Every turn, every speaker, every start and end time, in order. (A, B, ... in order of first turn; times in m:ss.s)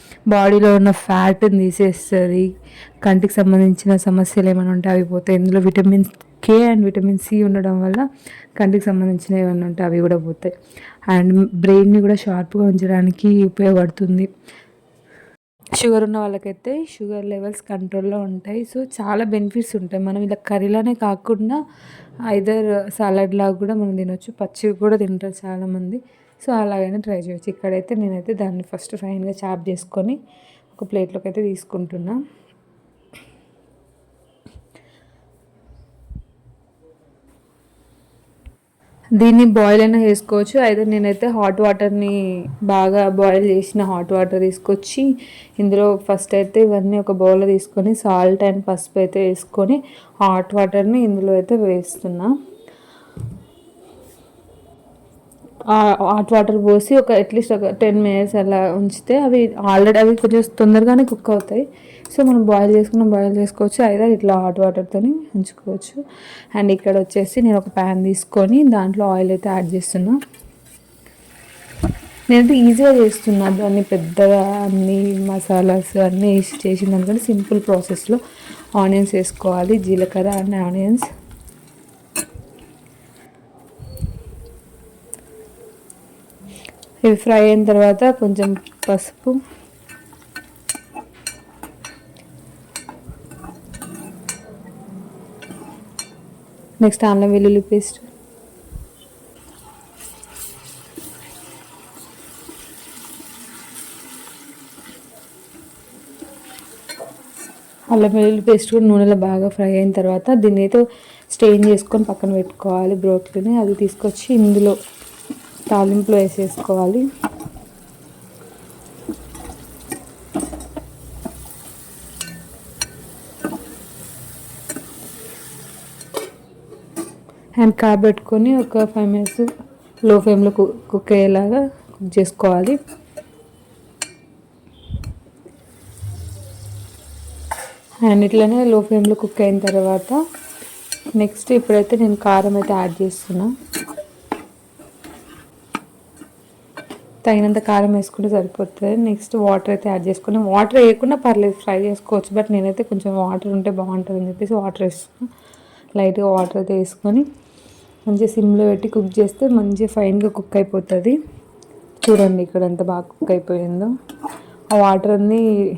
0:00.3-0:02.5 A
0:03.0-0:08.0 A
0:08.6-0:10.5 A
0:11.1-0:14.3 A
0:15.8-0:21.6 A
0:22.3-0:30.2 A
0:30.7-0:32.2 A
0:39.2-0:45.1 A
0:45.6-0:52.3 A
0:55.7-1:06.0 A
1:06.5-1:10.2 A
1:12.3-1:18.2 A
1:18.8-1:21.1 A
1:27.0-1:29.4 A
1:36.8-1:38.0 A
1:47.9-1:54.8 A
1:55.7-1:57.0 A
2:07.6-2:09.5 A
2:10.0-2:12.8 A
2:18.0-2:20.2 A
2:21.2-2:23.5 A
2:27.2-2:35.3 A
2:36.0-2:37.2 A
2:38.1-2:41.2 A
2:42.0-2:43.9 A
2:44.7-2:45.4 A